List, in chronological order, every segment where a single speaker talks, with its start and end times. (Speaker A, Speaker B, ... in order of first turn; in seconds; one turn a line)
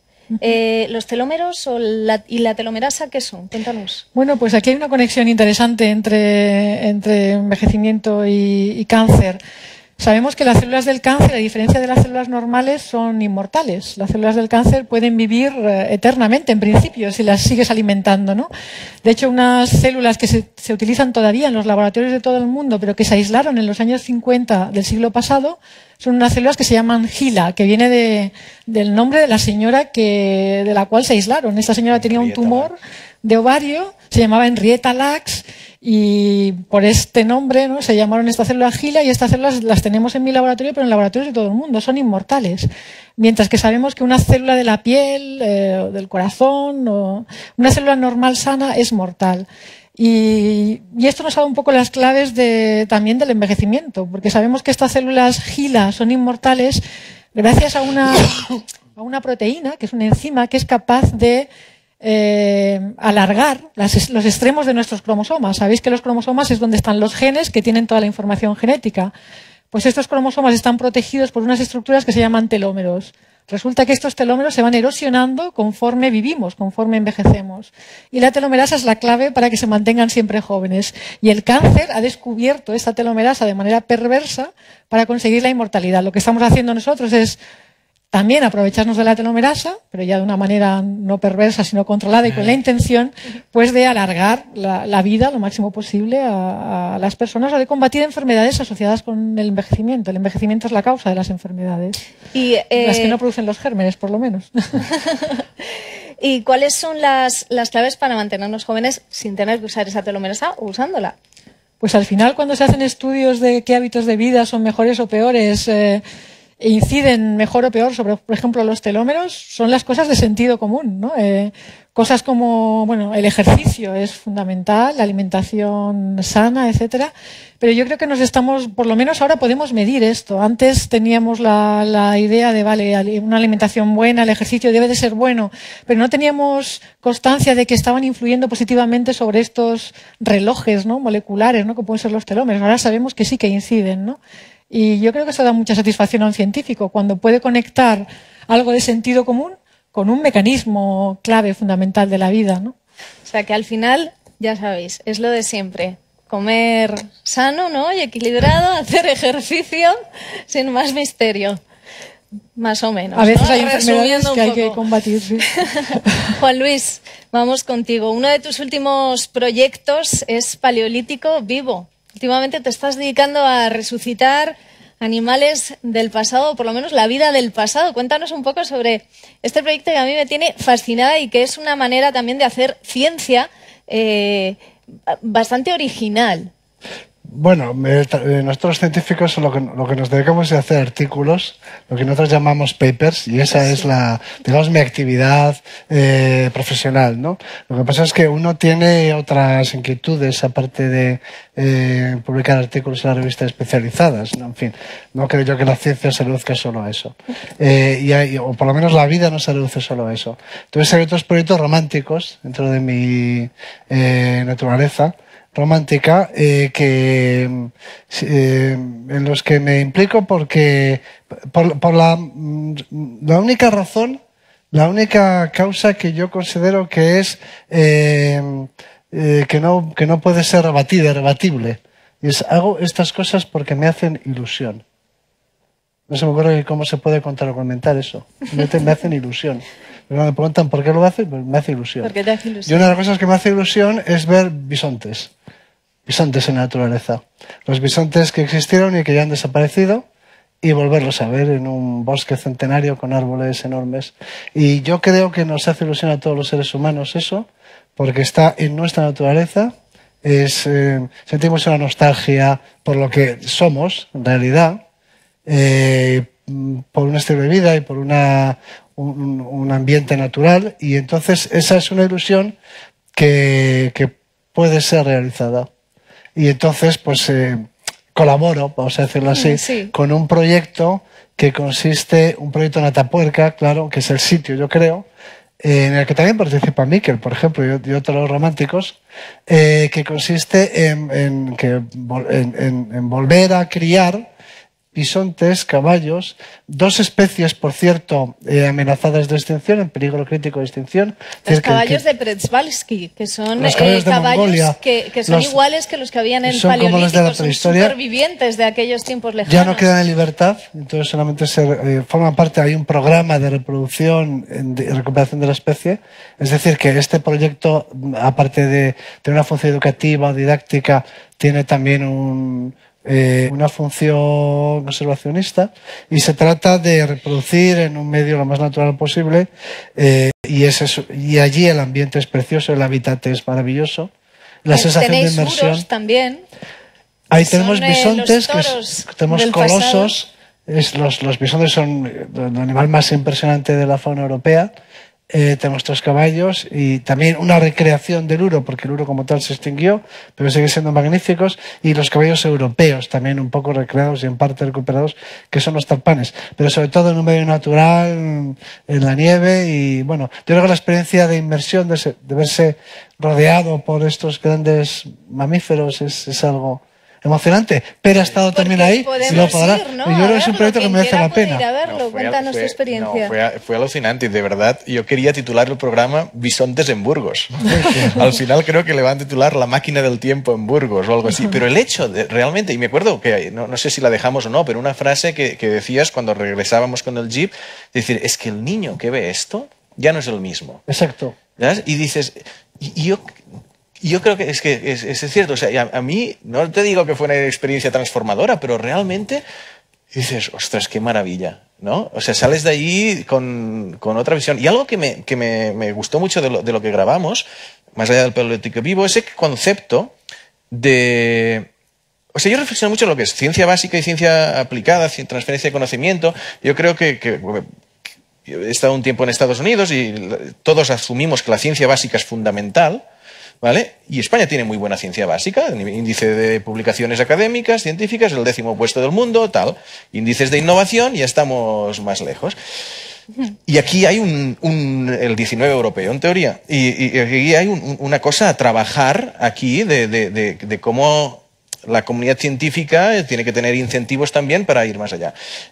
Speaker A: 0.4-4.0
Speaker B: 4.2-9.4
Speaker B: 10.0-18.5
Speaker B: 19.0-56.8
Speaker C: 31.9-32.7
Speaker B: 57.3-61.5
Speaker B: 62.0-69.1
Speaker B: 69.7-87.4
Speaker B: 88.1-102.0
Speaker A: 102.3-103.2
Speaker B: 102.8-104.8
Speaker A: 106.2-111.2
Speaker B: 111.8-116.0
Speaker B: 116.6-144.2
Speaker B: 144.7-152.7
Speaker A: 153.2-160.0
Speaker A: 160.5-161.6
Speaker A: 162.6-164.8
Speaker B: 163.1-165.5
Speaker A: 166.3-186.5
Speaker D: 187.2-224.2
Speaker D: 224.7-234.8
Speaker D: 236.1-242.1
Speaker A: 242.0-242.9
Speaker D: 242.7-245.3
Speaker D: 246.1-250.1
Speaker D: 250.6-264.8
Speaker D: 265.5-272.6
Speaker D: 273.1-275.7
Speaker D: 276.4-285.1
Speaker A: 279.3-279.9
Speaker D: 285.6-294.3
Speaker D: 294.9-302.0
Speaker A: 301.5-309.9
Speaker D: 303.6-305.6
Speaker D: 306.5-307.9
Speaker D: 309.5-334.1
Speaker D: 334.6-335.9
Speaker A: 334.7-336.5
Speaker D: 337.3-344.7
Speaker A: 337.4-340.1
Speaker D: 345.3-371.6
Speaker A: 368.5-373.3
Speaker C: 369.2-369.6
Speaker C: 371.8-390.8
Speaker D: 390.9-391.4
Speaker C: 391.6-393.3
Speaker C: 394.0-399.4
Speaker C: 400.1-410.1
Speaker C: 410.7-411.7
Speaker C: 412.3-417.7
Speaker C: 418.5-423.0
Speaker C: 423.6-432.6
Speaker C: 433.7-445.4